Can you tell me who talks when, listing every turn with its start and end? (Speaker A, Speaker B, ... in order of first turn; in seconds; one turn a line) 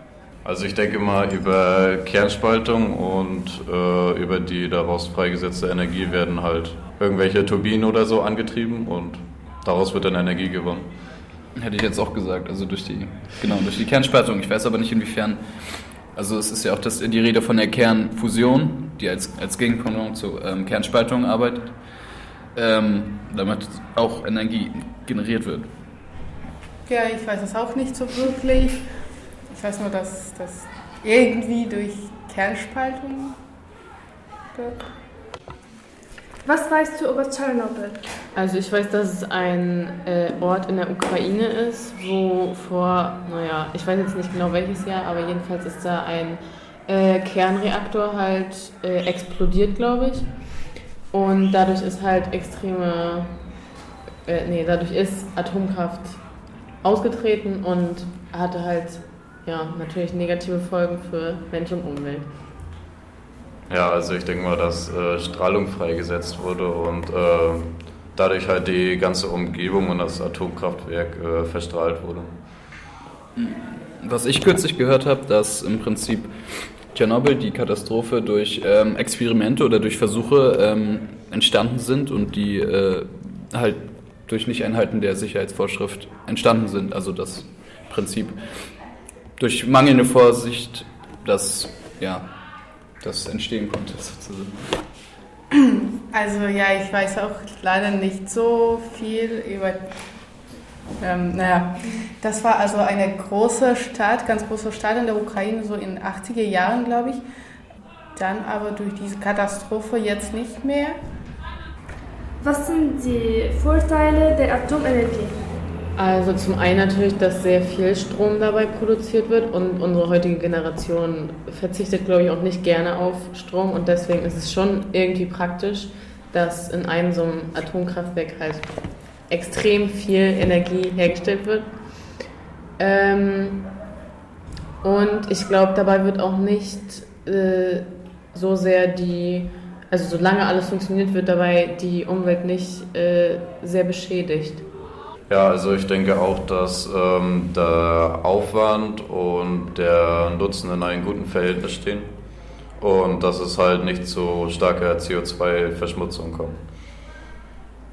Speaker A: 0.4-10.9
Speaker B: 11.5-22.0
Speaker B: 22.5-25.8
Speaker C: 26.9-33.4
Speaker C: 34.5-34.9
Speaker D: 36.4-38.1
Speaker E: 38.3-50.5
Speaker E: 51.1-53.5
Speaker E: 54.2-56.3
Speaker E: 56.8-62.4
Speaker A: 63.7-72.4
Speaker B: 73.3-88.8
Speaker B: 89.4-94.9
Speaker C: 96.1-100.0
Speaker C: 101.0-107.2
Speaker C: 108.1-111.0
Speaker D: 112.4-115.4
Speaker E: 116.0-128.7
Speaker E: 129.3-131.8
Speaker E: 132.8-133.7
Speaker E: 134.8-144.6
Speaker A: 145.3-152.2
Speaker A: 152.8-156.6